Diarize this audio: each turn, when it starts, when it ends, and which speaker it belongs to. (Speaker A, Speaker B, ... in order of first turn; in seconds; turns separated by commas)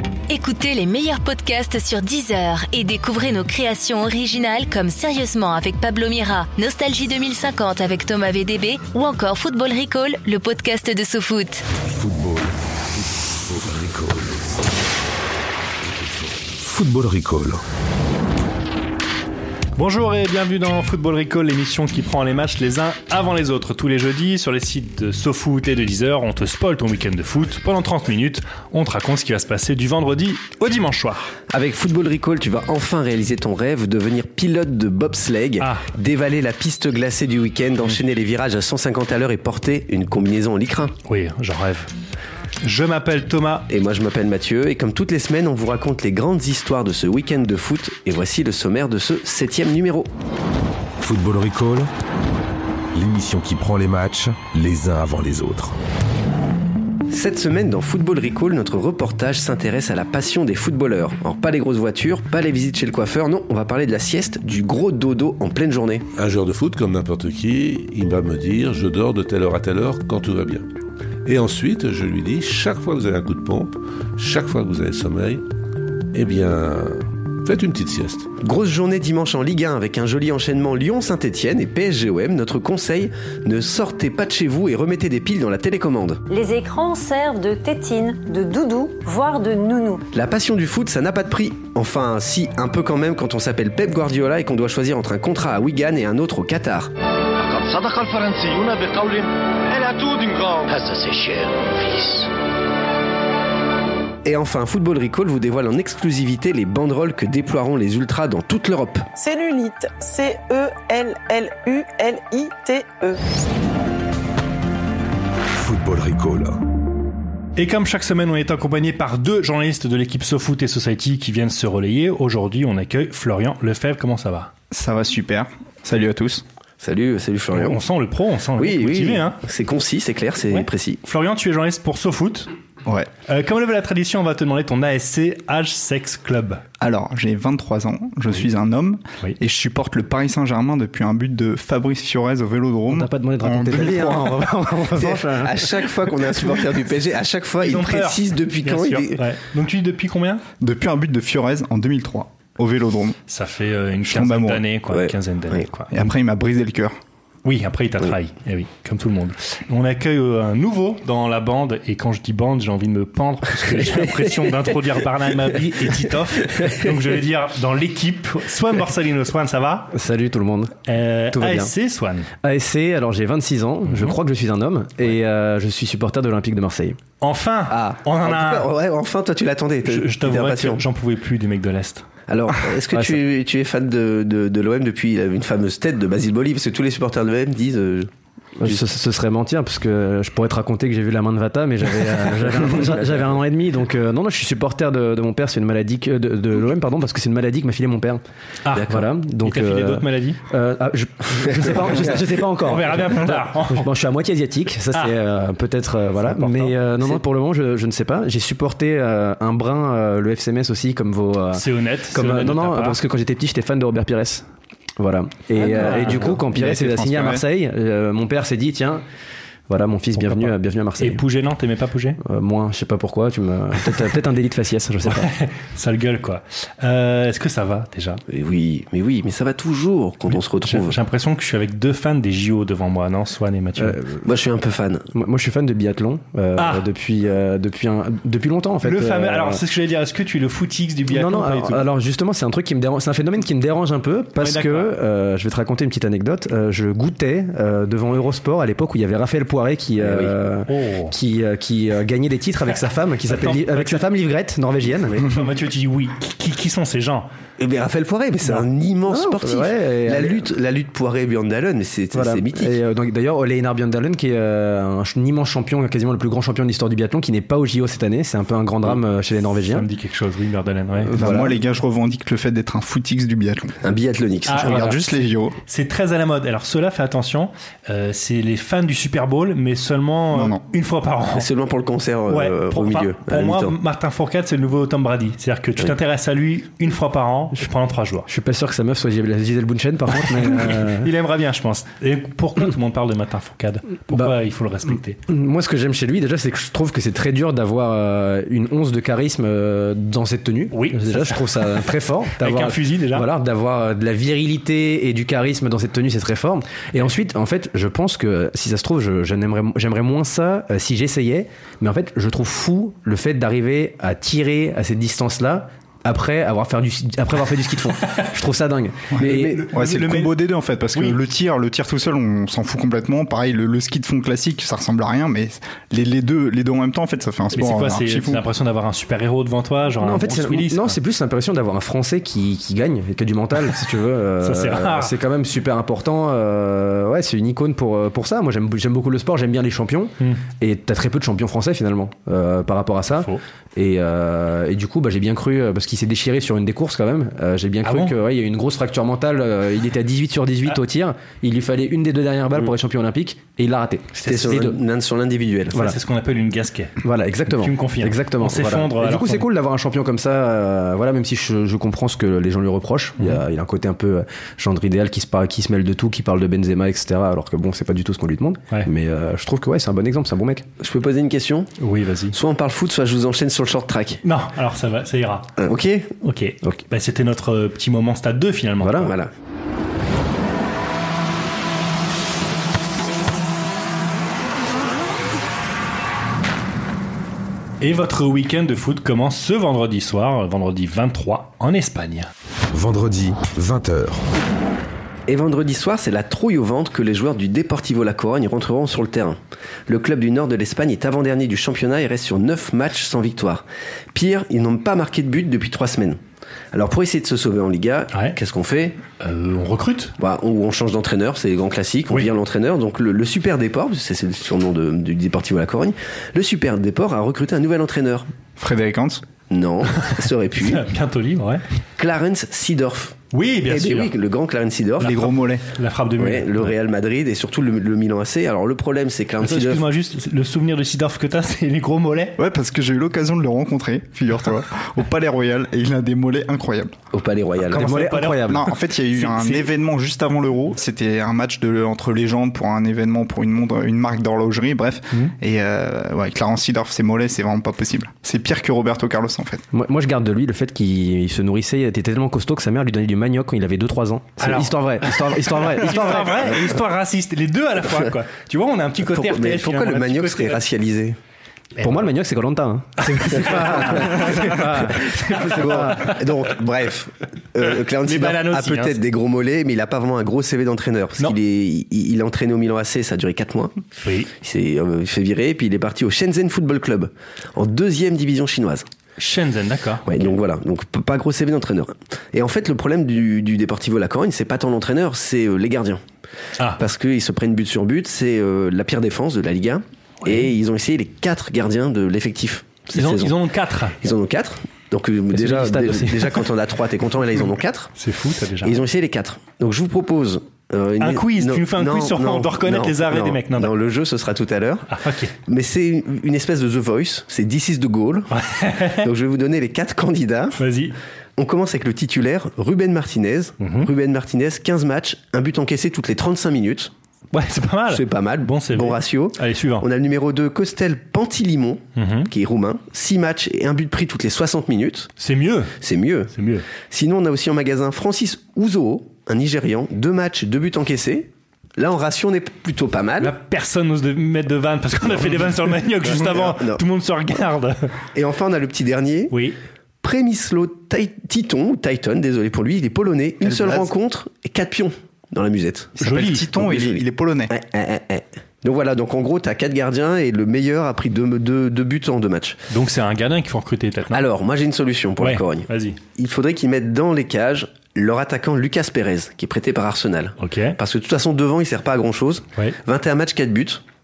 Speaker A: 0.3-11.6, Speaker B: 11.8-12.5, Speaker B: 13.2-14.7, Speaker B: 15.8-17.6, Speaker C: 19.8-31.3, Speaker D: 31.5-40.9, Speaker C: 35.6-35.9, Speaker C: 41.1-41.9, Speaker C: 42.6-43.7, Speaker D: 43.7-50.1, Speaker B: 51.0-51.9, Speaker B: 52.9-55.8, Speaker D: 57.1-66.1, Speaker E: 66.2-70.7, Speaker E: 71.2-75.4, Speaker E: 76.1-78.3, Speaker D: 78.4-86.2, Speaker F: 86.3-90.0, Speaker D: 90.1-96.9, Speaker G: 97.4-102.3, Speaker D: 104.2-109.1, Speaker H: 109.2-113.2, Speaker B: 115.5-116.6, Speaker C: 117.6-124.5, Speaker I: 124.7-126.4, Speaker D: 126.8-127.8, Speaker C: 127.5-129.4, Speaker D: 128.6-131.0, Speaker C: 130.5-132.5, Speaker C: 133.3-136.6, Speaker I: 136.8-144.6, Speaker J: 142.9-145.7, Speaker D: 145.0-149.2, Speaker C: 147.6-150.4, Speaker I: 150.6-153.2, Speaker C: 153.3-155.9, Speaker I: 154.1-154.7, Speaker D: 154.9-155.7, Speaker I: 155.9-157.0, Speaker C: 157.4-169.9, Speaker J: 169.9-170.7, Speaker C: 170.9-172.3, Speaker J: 171.3-171.7, Speaker J: 172.4-177.0, Speaker C: 173.9-174.2, Speaker C: 177.2-178.7, Speaker D: 177.7-180.8, Speaker C: 179.8-182.1, Speaker D: 182.3-188.1, Speaker J: 188.6-198.2, Speaker C: 198.7-200.4, Speaker J: 198.9-214.5, Speaker C: 202.6-203.9, Speaker C: 206.4-206.7, Speaker C: 211.6-213.0, Speaker J: 215.0-219.0, Speaker C: 215.6-216.4, Speaker I: 215.9-217.4, Speaker J: 219.7-221.2, Speaker C: 220.2-222.2, Speaker J: 222.2-225.3, Speaker C: 225.1-228.2, Speaker D: 228.3-231.0, Speaker C: 230.3-234.0, Speaker J: 233.8-234.2, Speaker D: 234.2-235.1, Speaker J: 235.1-239.6, Speaker C: 236.6-236.8, Speaker C: 238.8-241.8, Speaker J: 241.1-255.2, Speaker C: 244.4-244.9, Speaker D: 250.0-250.3, Speaker C: 250.7-251.1, Speaker C: 253.3-254.1, Speaker C: 255.2-257.3, Speaker D: 257.6-262.8, Speaker J: 258.5-260.5, Speaker J: 262.1-269.9, Speaker C: 269.7-271.1, Speaker J: 271.0-271.6, Speaker I: 271.1-273.8, Speaker D: 273.8-274.9, Speaker C: 274.5-275.0, Speaker I: 274.5-275.6, Speaker C: 275.7-281.5, Speaker I: 280.3-280.6, Speaker D: 281.3-283.8, Speaker C: 282.3-288.3, Speaker J: 288.3-291.1, Speaker C: 290.4-295.2, Speaker J: 295.3-319.6, Speaker C: 300.7-303.3, Speaker I: 319.1-328.4, Speaker C: 319.2-320.4, Speaker C: 327.5-331.0, Speaker J: 330.0-354.8, Speaker C: 334.4-335.1, Speaker C: 347.9-348.1, Speaker D: 354.2-355.8, Speaker C: 355.7-357.0, Speaker J: 357.0-370.6, Speaker C: 357.5-359.5, Speaker D: 370.8-371.7, Speaker C: 371.8-372.4, Speaker D: 372.3-374.2, Speaker C: 374.2-375.5, Speaker D: 375.6-376.1, Speaker C: 376.2-379.1, Speaker J: 378.8-379.1, Speaker D: 379.0-379.3, Speaker C: 387.8-392.3, Speaker B: 392.7-394.3, Speaker D: 395.3-399.4, Speaker D: 399.9-406.2, Speaker D: 406.7-409.0, Speaker C: 409.2-410.1, Speaker D: 410.2-418.3, Speaker I: 418.6-419.2, Speaker D: 419.5-420.9, Speaker C: 420.6-421.6, Speaker D: 422.0-425.2, Speaker C: 423.3-424.1, Speaker I: 425.0-425.6, Speaker C: 425.0-426.7, Speaker D: 426.2-429.8, Speaker C: 429.4-432.4, Speaker I: 432.4-436.9, Speaker D: 437.1-437.9, Speaker C: 437.7-439.7, Speaker J: 437.7-438.6, Speaker I: 438.4-449.6, Speaker J: 449.7-456.6, Speaker C: 454.4-460.6, Speaker D: 459.1-461.2, Speaker C: 461.8-462.1, Speaker J: 461.8-466.2, Speaker C: 463.0-465.9, Speaker D: 464.1-464.6, Speaker D: 465.4-473.8, Speaker C: 468.0-469.0, Speaker C: 474.0-474.3, Speaker D: 474.4-478.9, Speaker C: 479.2-480.3, Speaker D: 480.1-486.0, Speaker D: 486.8-493.3, Speaker C: 490.2-490.5, Speaker C: 492.9-494.0, Speaker D: 494.0-497.9, Speaker J: 495.3-496.4, Speaker C: 498.0-498.8, Speaker D: 498.6-504.9, Speaker C: 501.0-503.7, Speaker C: 504.9-505.3, Speaker D: 505.5-508.3, Speaker C: 508.3-509.1, Speaker D: 509.0-510.6, Speaker C: 510.6-511.0, Speaker D: 511.4-516.9, Speaker C: 513.6-513.9, Speaker C: 517.3-519.9, Speaker D: 517.9-525.1, Speaker C: 522.0-522.3, Speaker C: 525.2-525.7, Speaker D: 525.8-533.3, Speaker C: 526.3-526.7, Speaker C: 533.2-537.9, Speaker D: 536.0-536.8, Speaker D: 538.1-539.3, Speaker C: 539.3-539.6, Speaker D: 540.0-552.6, Speaker I: 546.0-547.5, Speaker C: 546.0-546.5, Speaker C: 552.7-554.2, Speaker D: 554.1-563.8, Speaker C: 555.2-556.0, Speaker C: 560.4-560.8